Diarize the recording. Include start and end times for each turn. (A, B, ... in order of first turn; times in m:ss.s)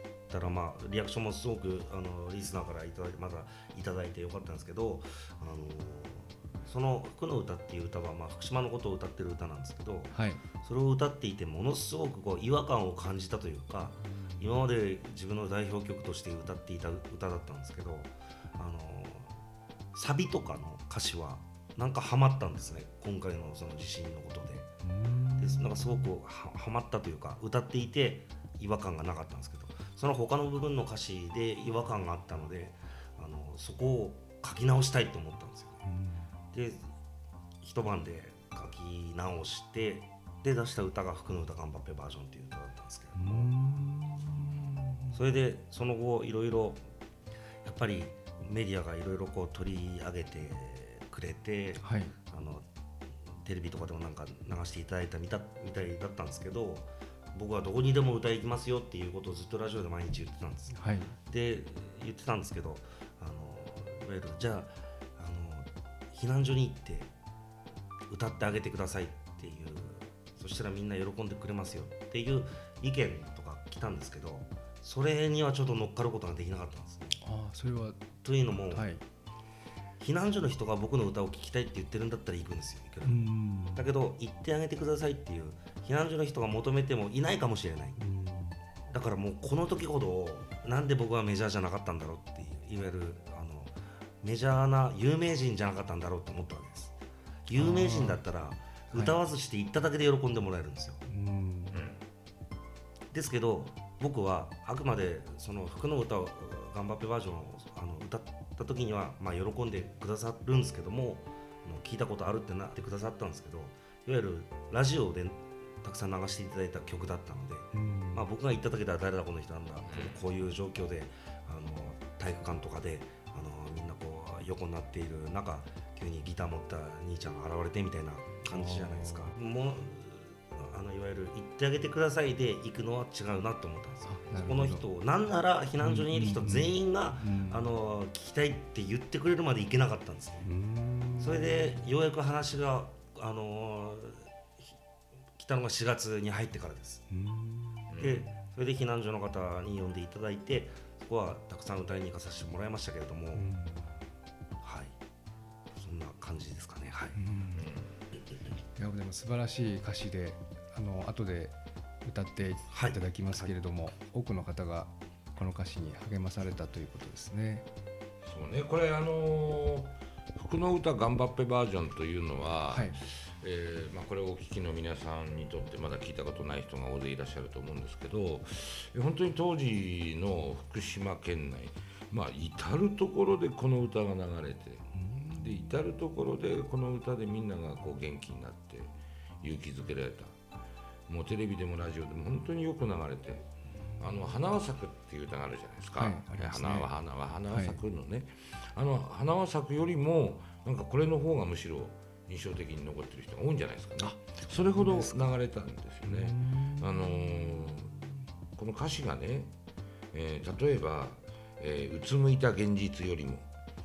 0:00.3-0:19.4 A
0:10.1-0:10.4 B
0:14.1-0:14.6 B
0:19.9-0:24.7 A
0:24.8-0:26.1 B
0:25.4-0:35.8 A
0:35.8-0:36.3 B
0:36.5-0:36.9 A
0:37.6-0:43.5 A
0:43.2-0:45.2 B
0:45.1-0:46.8 A
0:47.6-0:52.6 A
0:51.8-0:52.1 B
0:53.4-1:00.8 A
1:00.7-1:01.1 B
1:01.3-1:07.1 A
1:08.1-1:17.2 A
1:17.2-1:18.0 B
1:18.2-1:18.9 A
1:18.7-1:19.0 B
1:20.0-1:28.0 A
1:23.0-1:23.9 B
1:28.0-1:28.6 B
1:28.9-1:36.9 A
1:37.4-1:41.0 A
1:37.5-1:38.2 B
1:38.9-1:39.2 B
1:41.1-1:41.8 B
1:43.1-2:20.5 A
1:57.7-1:58.2 B
1:59.8-2:00.2 C
2:08.5-2:09.3 B
2:14.0-2:14.8 B
2:15.8-2:17.7 B
2:20.4-2:21.9 B
2:21.2-2:24.6 A
2:25.4-2:27.0 A
2:27.1-2:27.9 B
2:27.9-2:28.2 C
2:28.0-2:33.5 A
2:33.3-2:34.0 B
2:34.6-2:35.0 A
2:35.7-2:37.2 A
2:37.2-2:37.7 B
2:37.6-2:37.8 C
2:38.8-2:47.7 B
2:42.7-2:43.0 A
2:48.2-3:10.4 C
2:52.7-2:53.0 B
3:04.9-3:05.7 B
3:11.1-3:28.0 C
3:16.0-3:16.9 B
3:17.5-3:17.8 B
3:24.0-3:25.2 B
3:26.0-3:28.0 B
3:28.6-3:29.5 C
3:30.1-3:33.4 C